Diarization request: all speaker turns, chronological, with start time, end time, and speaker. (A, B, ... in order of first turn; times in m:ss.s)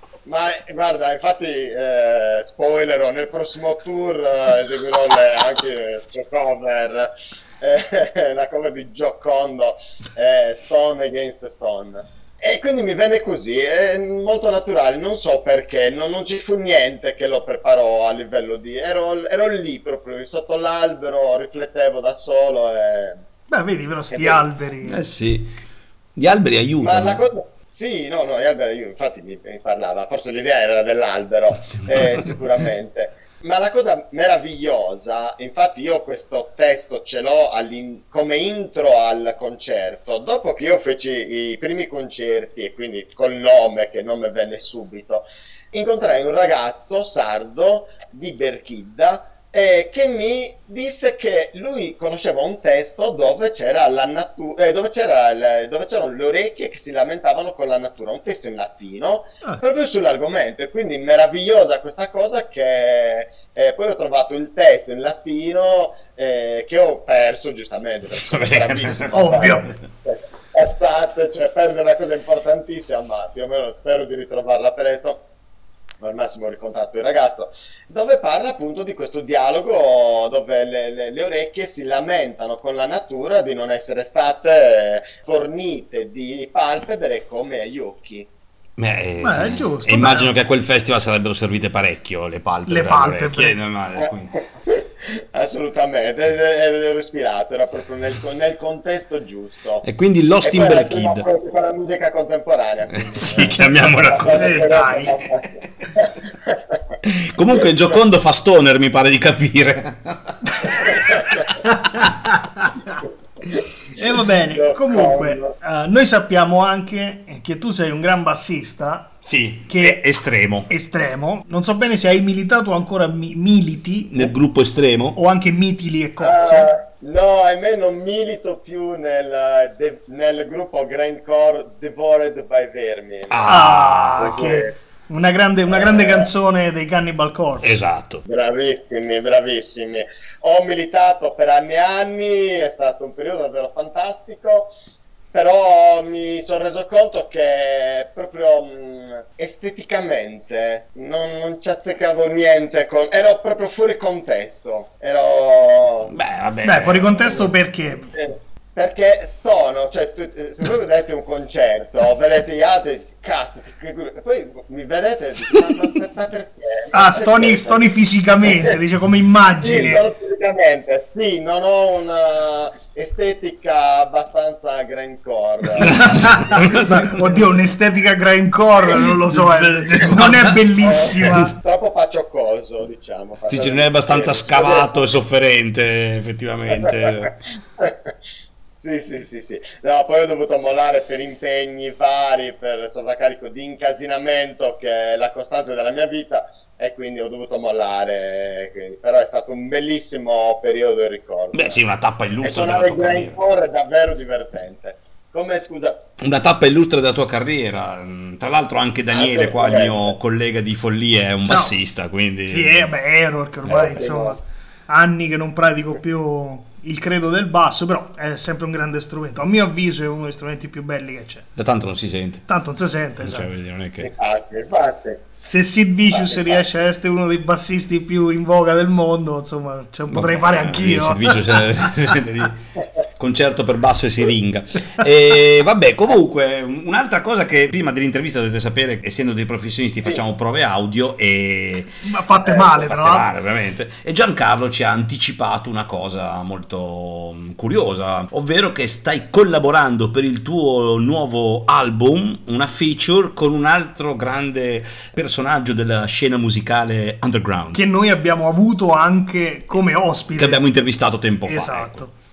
0:00.2-0:23.2 A
0:23.5-0:25.0 B
0:24.1-0:24.4 A
0:24.8-0:25.5 C
0:26.2-0:27.2 C
0:26.8-1:15.2 A
0:31.7-0:32.4 C
1:08.2-1:09.8 C
1:09.1-1:09.7 B
1:16.0-1:28.3 A
1:28.8-1:34.3 C
1:29.2-1:30.3 B
1:32.7-1:33.6 B
1:34.6-1:39.8 A
1:39.8-1:41.2 C
1:40.4-1:46.8 A
1:42.9-1:44.9 C
1:44.3-1:45.2 B
1:47.0-1:51.1 C
1:50.7-1:51.6 A
1:51.6-1:52.8 B
1:54.0-2:00.0 B
1:54.5-1:55.5 A
1:59.2-2:00.7 C
2:00.7-2:04.3 B
2:04.1-2:05.2 C
2:05.1-2:06.7 B
2:06.2-2:13.6 A
2:13.3-2:14.4 C
2:13.4-2:17.8 B
2:14.2-2:14.7 A
2:15.7-2:16.3 A
2:17.6-2:18.2 C
2:18.2-2:24.7 A
2:25.3-2:36.1 A
2:36.1-2:37.5 C
2:36.6-2:38.1 B
2:38.1-2:47.9 A
2:46.9-2:50.0 B
2:48.4-2:48.7 A
2:49.6-2:56.0 A
2:55.8-2:57.5 C
2:55.8-3:01.5 B
2:58.9-3:00.6 C
3:00.8-3:05.1 A
3:01.2-3:01.5 C
3:03.5-3:07.3 C
3:06.7-3:08.1 A
3:08.8-3:21.8 A
3:21.5-3:23.4 C
3:22.4-3:26.0 A
3:26.2-3:32.9 C
3:29.1-3:30.1 A
3:31.4-3:31.7 B
3:32.5-3:41.5 B
3:33.7-3:34.4 A
3:41.6-3:42.4 C
3:42.5-3:43.5 B
3:43.2-3:44.1 C
3:44.0-3:45.2 A
3:45.4-3:51.6 B
3:46.1-3:46.6 A
3:50.1-3:52.6 C
3:53.2-4:01.9 C
4:02.0-4:03.3 B
4:02.6-4:17.8 C
4:17.7-4:20.6 B
4:20.4-4:22.0 C
4:21.4-4:22.1 B